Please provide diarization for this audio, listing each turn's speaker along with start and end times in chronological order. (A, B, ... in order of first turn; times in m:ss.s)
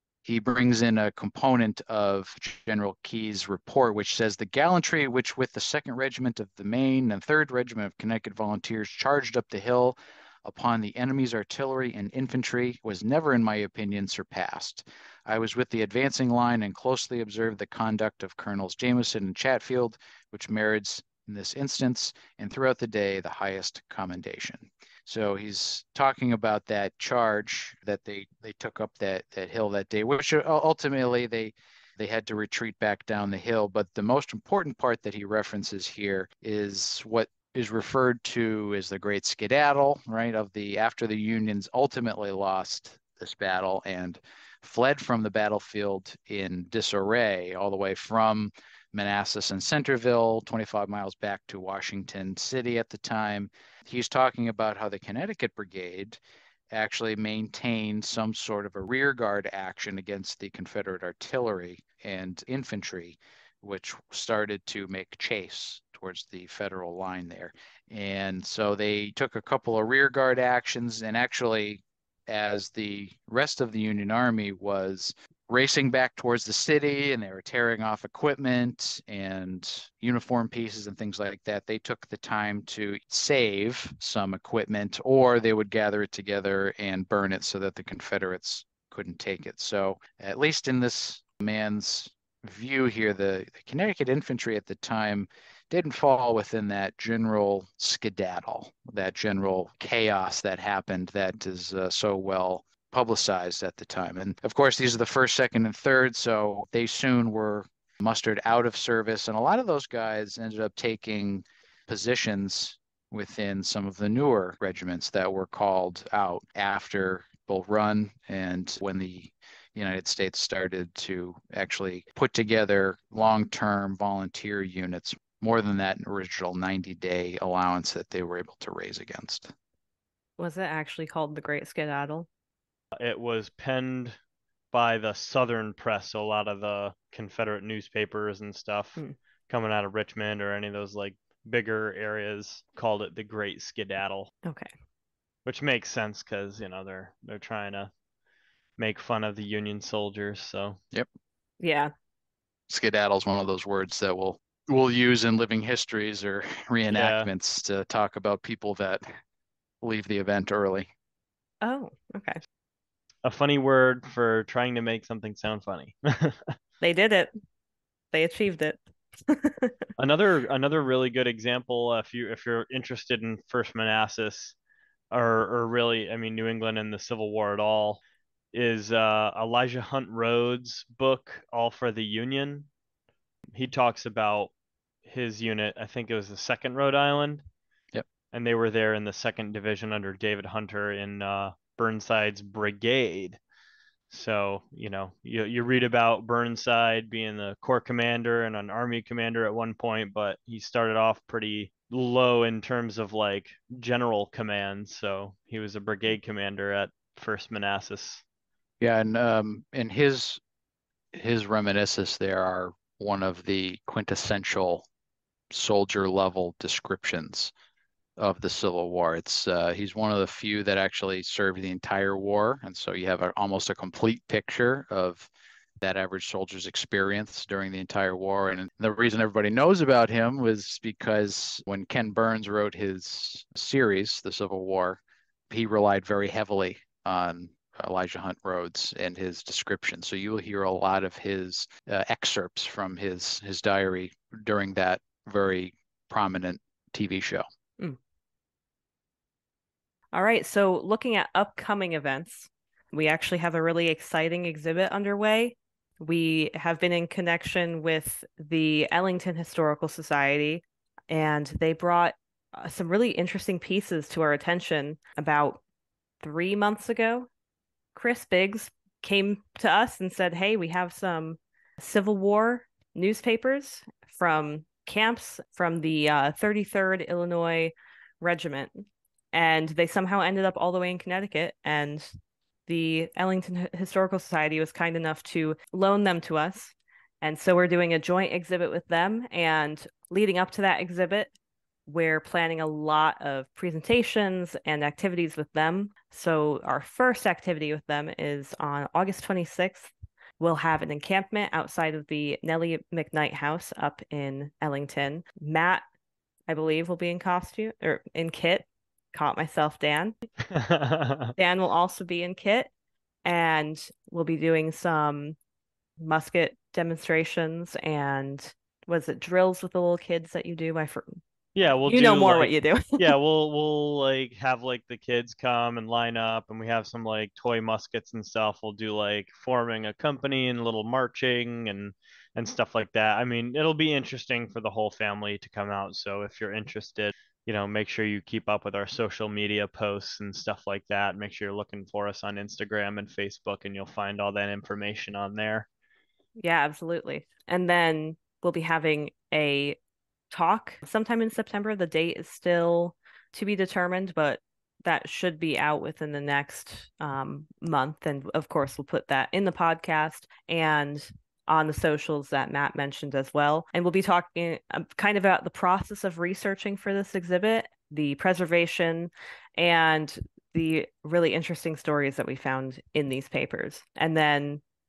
0:00.2-0:56.2 A
0:56.7-2:09.5 A
2:10.4-2:12.3 B
2:13.0-2:14.2 C
2:14.7-2:24.3 C
2:24.4-2:24.7 B
2:25.4-2:27.9 C
2:28.8-2:30.8 C
2:31.6-2:31.9 B
2:32.7-2:39.1 A
2:36.9-2:37.3 C
2:39.8-2:40.9 A
2:41.6-2:42.4 B
2:43.2-2:46.6 C
2:46.8-2:47.3 B
2:48.1-2:49.8 B
2:50.0-2:54.6 C
2:55.1-2:58.0 C
2:58.5-3:02.7 C
3:03.5-3:04.5 C
3:05.0-3:07.4 C
3:08.3-3:13.4 C
3:14.1-3:28.2 C
3:28.8-3:30.4 A
3:31.1-3:34.9 A
3:35.5-3:37.5 A
3:38.2-3:45.3 A
3:45.8-4:07.4 A
4:10.1-4:25.6 B
4:26.2-4:27.3 B
4:28.0-4:51.3 B
4:51.9-5:05.8 B
5:06.5-5:10.2 B
5:10.5-5:11.3 C
5:11.4-5:12.7 B
5:13.2-5:15.4 B
5:16.0-5:21.2 B
5:21.6-5:45.7 C
5:21.9-5:23.1 B
5:46.4-5:49.8 B
5:50.3-6:14.6 B